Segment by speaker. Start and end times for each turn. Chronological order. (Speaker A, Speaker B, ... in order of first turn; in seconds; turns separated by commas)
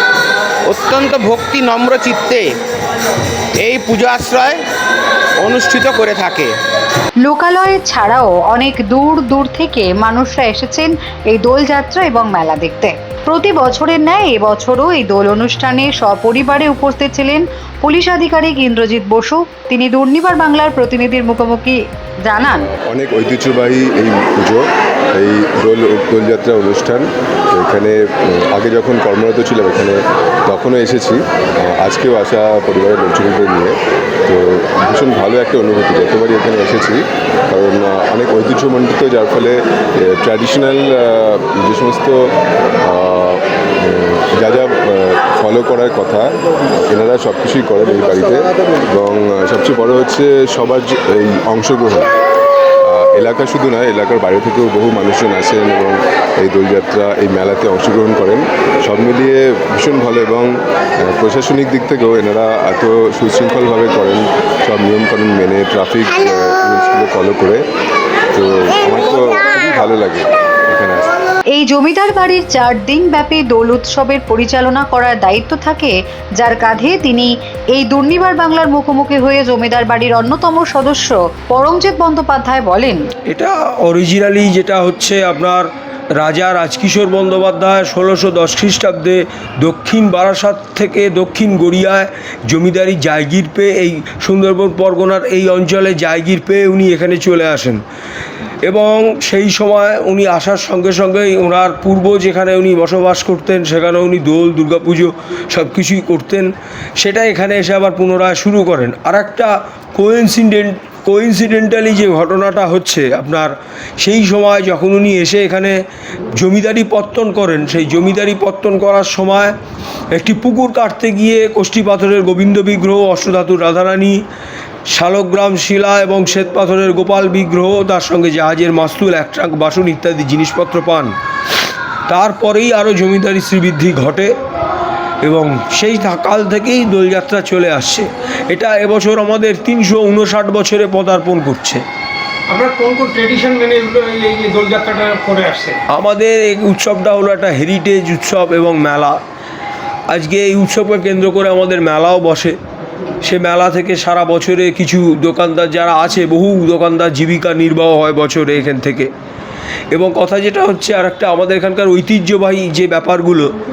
Speaker A: 0.7-2.5, Speaker A: 3.6-4.6, Speaker A: 5.4-6.5, Speaker B: 7.2-22.7, Speaker C: 22.9-28.0, Speaker C: 28.5-33.8, Speaker C: 34.3-42.2, Speaker C: 42.8-46.3, Speaker C: 46.9-52.1, Speaker C: 52.9-60.5, Speaker C: 61.0-67.6, Speaker C: 68.3-71.1, Speaker B: 71.5-83.1, Speaker D: 83.3-97.8, Speaker D: 98.6-115.8, Speaker D: 116.3-119.5, Speaker D: 120.1-124.2, Speaker D: 124.9-131.1, Speaker D: 132.1-134.3, Speaker D: 135.2-141.8, Speaker E: 142.5-145.8, Speaker D: 145.9-149.2, Speaker D: 150.1-152.6, Speaker D: 153.2-159.1, Speaker D: 159.9-163.5